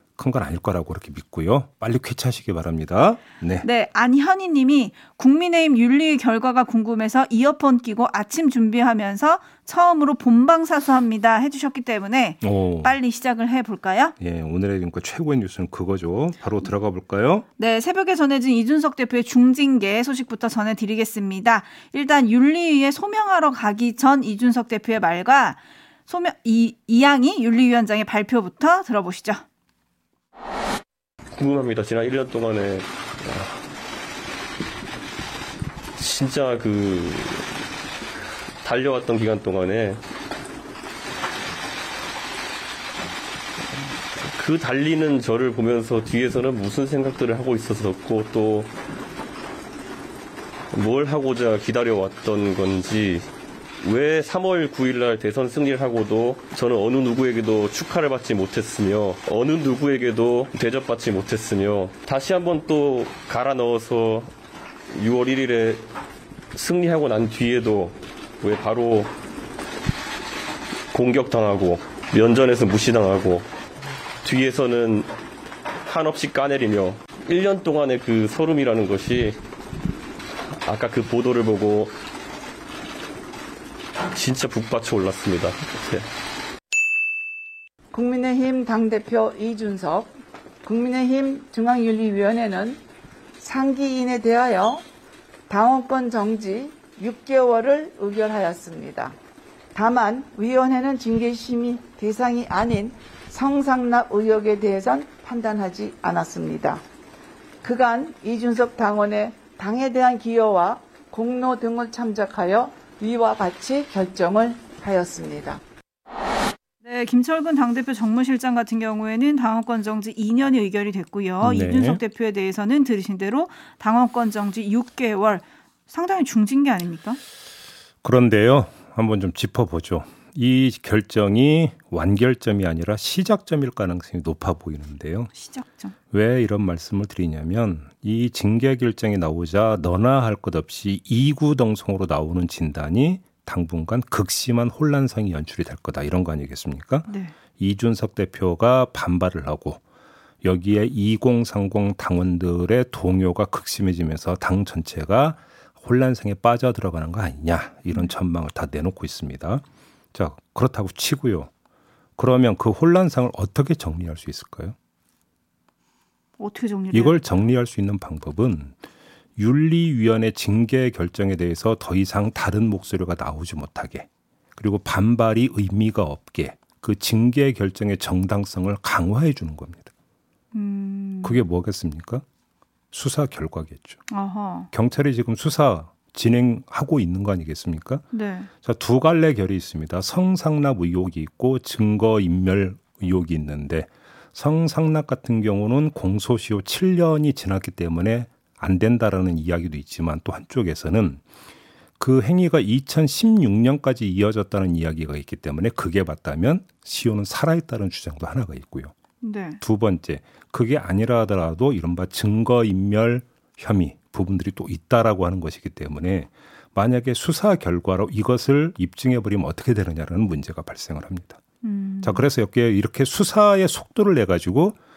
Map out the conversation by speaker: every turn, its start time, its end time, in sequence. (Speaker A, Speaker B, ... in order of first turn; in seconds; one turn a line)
Speaker A: 0.2-3.6
Speaker B: 3.6-14.1
Speaker A: 12.4-13.0
Speaker A: 14.2-17.4
Speaker B: 17.6-29.4
Speaker C: 31.3-33.6
Speaker C: 36.0-37.5
Speaker C: 38.6-40.0
Speaker C: 43.7-48.7
Speaker C: 50.7-53.2
Speaker C: 53.8-64.3
Speaker C: 64.9-65.8
Speaker C: 66.5-69.1
Speaker C: 70.9-73.5
Speaker C: 74.2-75.1
Speaker C: 75.8-79.4
Speaker C: 80.5-81.9
Speaker C: 84.1-86.0
Speaker D: 87.9-92.8
Speaker D: 93.4-94.8
Speaker D: 95.5-99.2
Speaker D: 99.7-106.8
Speaker D: 107.6-115.6
Speaker B: 116.8-127.2
Speaker A: 121.4-122.0
Speaker A: 128.0-135.3
Speaker B: 135.3-135.9
Speaker A: 136.1-149.8
Speaker B: 147.1-147.3
Speaker A: 150.4-161.5
Speaker A: 162.2-164.8
Speaker B: 166.4-167.2
Speaker A: 166.9-168.8
Speaker A: 169.4-179.9
Speaker B: 180.5-181.4
Speaker A: 181.2-182.2
Speaker A: 182.9-184.0
Speaker B: 184.1-184.7
Speaker A: 184.7-188.0
Speaker B: 188.1-188.5
Speaker A: 188.6-201.2
Speaker A: 202.0-208.9
Speaker B: 209.2-209.6
Speaker A: 209.6-221.4
Speaker B: 221.6-222.2
Speaker A: 222.0-224.8